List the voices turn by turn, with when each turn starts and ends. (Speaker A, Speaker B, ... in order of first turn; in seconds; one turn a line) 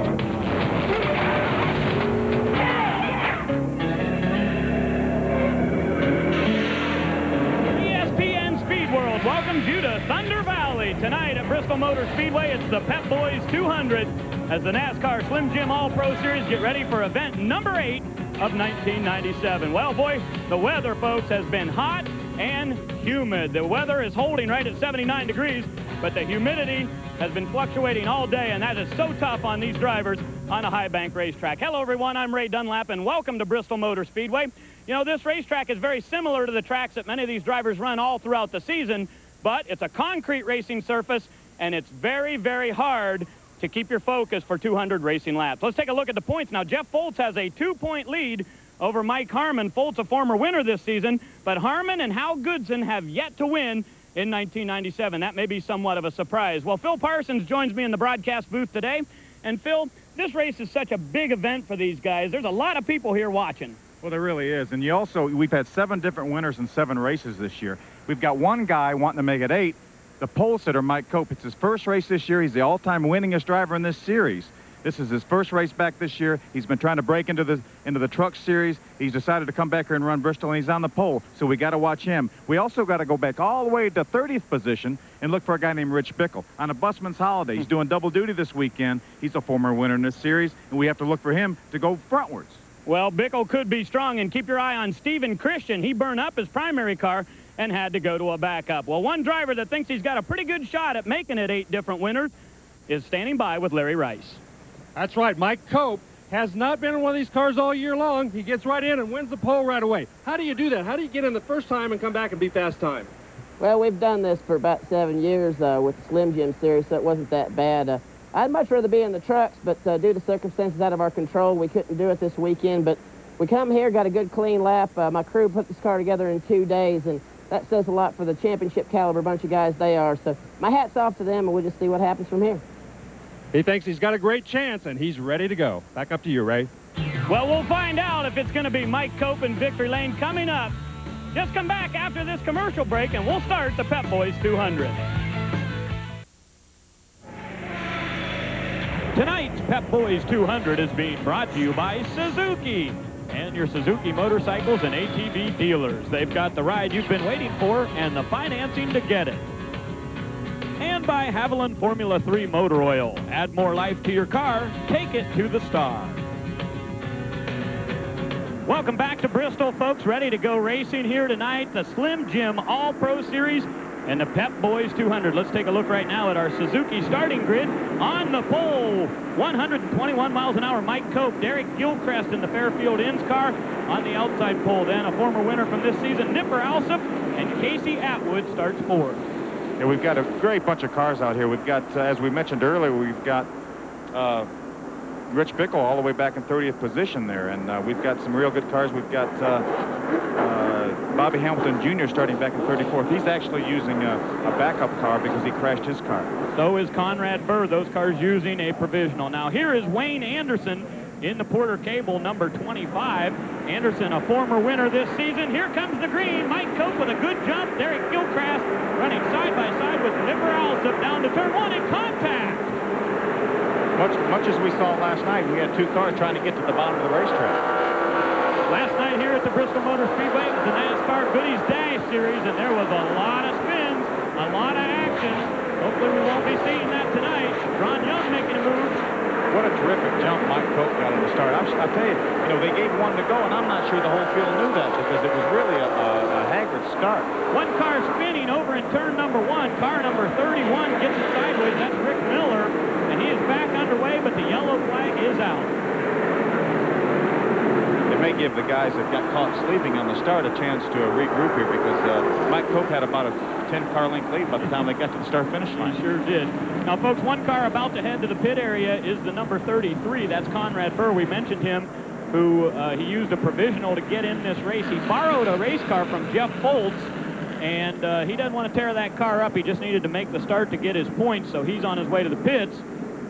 Speaker A: 7.7-63.8
Speaker B: 64.0-92.6
Speaker A: 92.9-102.3
Speaker A: 102.9-104.4
Speaker C: 104.9-113.1
Speaker D: 113.6-132.6
Speaker C: 133.5-136.7
Speaker A: 137.3-140.8
Speaker A: 141.3-145.0
Speaker A: 149.1-159.4
Speaker A: 160.8-166.2
Speaker A: 168.7-189.3
Speaker B: 189.8-193.5
Speaker B: 194.1-194.5
Speaker B: 195.3-199.7
Speaker B: 200.4-206.3
Speaker A: 206.6-222.8
Speaker B: 223.9-227.6
Speaker A: 228.7-239.0
Speaker B: 239.5-247.3
Speaker A: 247.5-255.8
Speaker B: 258.1-266.0
Speaker A: 265.8-282.9